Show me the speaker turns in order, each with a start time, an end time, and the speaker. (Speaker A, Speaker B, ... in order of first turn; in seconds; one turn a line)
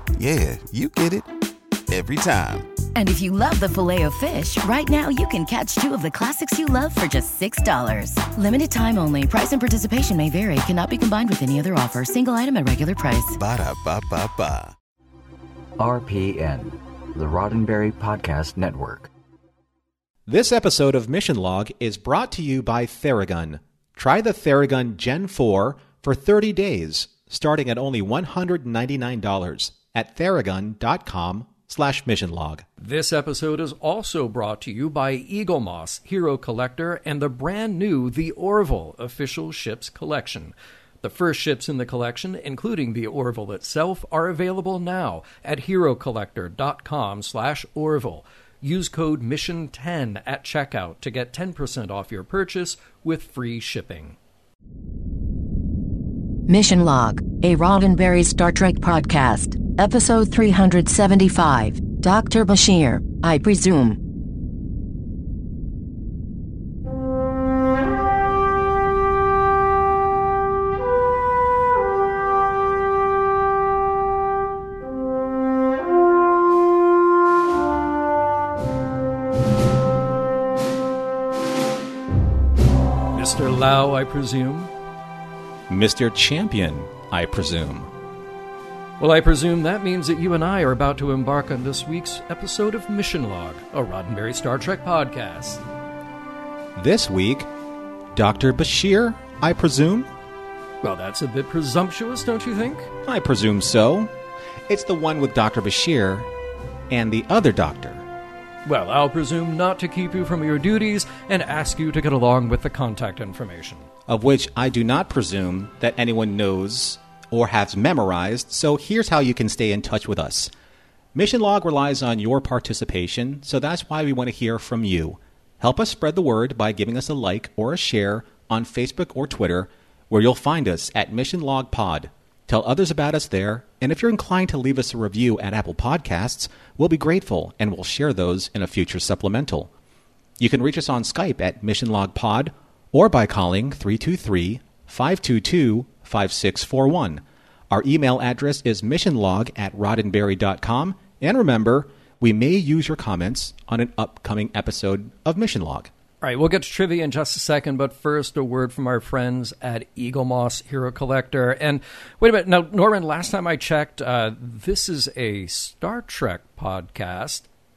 Speaker A: 0.1-1.3
Speaker A: 1.9-2.7
Speaker B: 2.9-13.4
Speaker A: 13.4-14.7
Speaker C: 15.8-19.1
Speaker D: 20.3-32.6
Speaker E: 32.8-54.2
Speaker B: 56.5-64.0
Speaker E: 83.1-84.7
Speaker D: 85.7-87.9
Speaker E: 89.0-95.6
Speaker D: 96.8-97.5
Speaker D: 98.1-100.1
Speaker E: 100.8-102.9
Speaker D: 103.0-104.1
Speaker D: 104.7-106.3
Speaker D: 106.9-108.0
Speaker E: 108.7-113.9
Speaker D: 114.1-120.5
Speaker D: 121.1-139.7
Speaker D: 140.4-155.9
Speaker E: 156.2-167.5